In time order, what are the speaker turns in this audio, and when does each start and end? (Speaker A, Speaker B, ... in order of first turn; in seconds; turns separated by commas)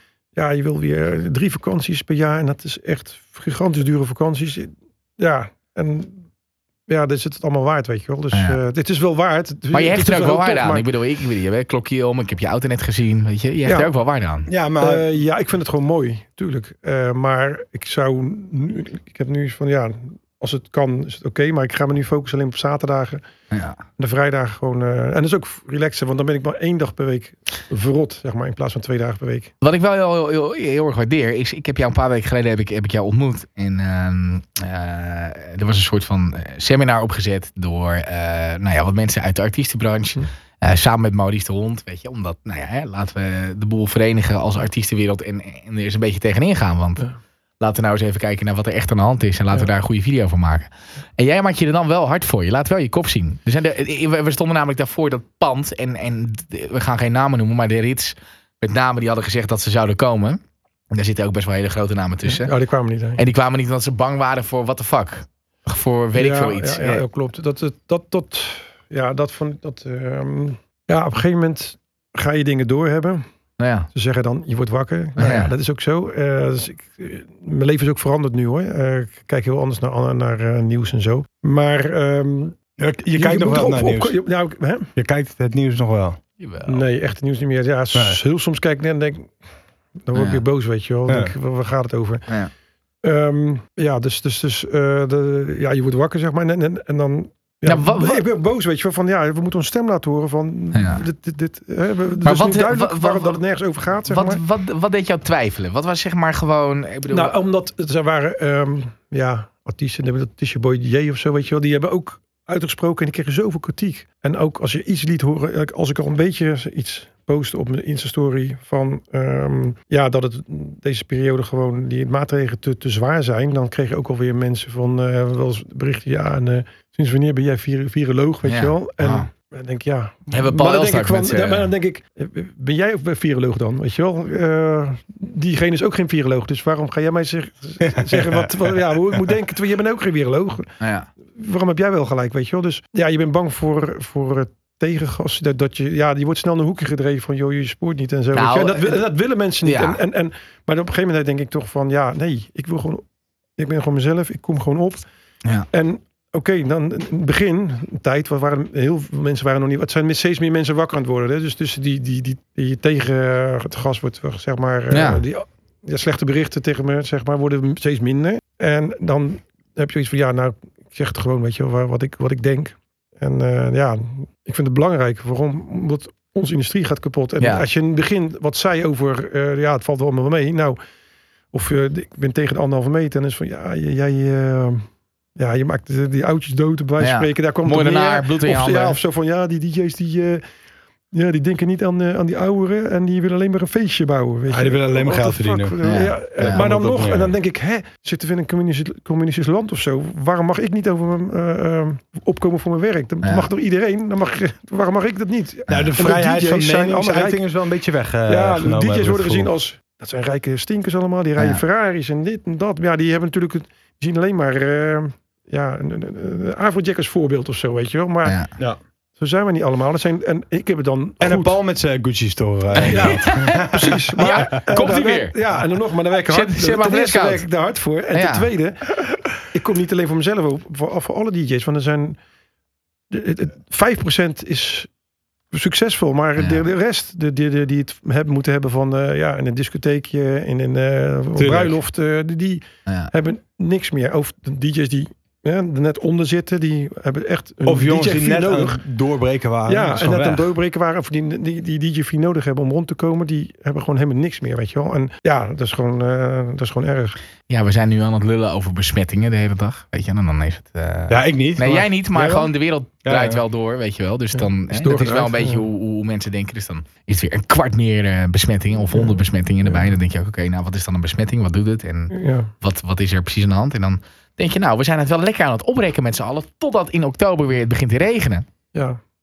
Speaker A: 0.3-6.2, Speaker A: 6.9-10.8, Speaker B: 8.3-8.6, Speaker B: 9.7-14.5, Speaker C: 14.5-15.1, Speaker A: 14.8-23.2, Speaker B: 23.5-23.8, Speaker A: 24.0-29.5, Speaker B: 29.6-47.1, Speaker B: 47.6-60.4, Speaker B: 60.9-62.5, Speaker A: 62.3-63.2, Speaker B: 63.2-67.0, Speaker A: 66.2-73.3, Speaker B: 73.6-73.9, Speaker A: 73.9-82.6, Speaker B: 75.2-75.5, Speaker C: 82.8-84.2, Speaker A: 83.2-84.9, Speaker C: 85.0-86.2, Speaker B: 86.4-86.8, Speaker A: 86.7-89.3, Speaker C: 87.9-88.2, Speaker A: 90.1-92.3, Speaker B: 90.1-90.4, Speaker C: 91.1-91.3, Speaker A: 93.0-104.4, Speaker B: 97.6-98.2, Speaker B: 100.7-101.0, Speaker B: 102.2-103.4, Speaker B: 104.1-107.3, Speaker A: 107.1-140.7, Speaker B: 128.4-129.3, Speaker B: 130.3-131.7, Speaker C: 137.8-138.5, Speaker B: 140.8-141.1, Speaker A: 141.3-153.0, Speaker B: 148.3-149.0, Speaker B: 149.7-150.0, Speaker A: 153.6-155.0, Speaker A: 155.7-180.8, Speaker B: 164.9-165.2, Speaker B: 177.4-177.7, Speaker A: 181.5-190.4, Speaker B: 187.0-189.0, Speaker A: 191.1-207.5, Speaker C: 194.5-197.3, Speaker B: 195.8-196.6, Speaker B: 203.2-203.5, Speaker C: 205.7-209.5, Speaker A: 208.3-218.4, Speaker B: 211.4-211.6, Speaker A: 219.2-221.6, Speaker C: 221.2-224.6, Speaker B: 222.8-225.4, Speaker A: 222.9-232.2, Speaker B: 226.3-227.5, Speaker B: 228.1-228.5, Speaker A: 233.1-234.9, Speaker A: 235.5-248.8, Speaker B: 236.4-236.6, Speaker C: 241.4-241.8, Speaker C: 247.7-250.5, Speaker A: 249.7-257.2, Speaker B: 257.5-278.5, Speaker C: 261.1-262.5, Speaker C: 263.1-263.4, Speaker A: 264.7-265.6, Speaker A: 272.1-272.5, Speaker A: 278.7-279.0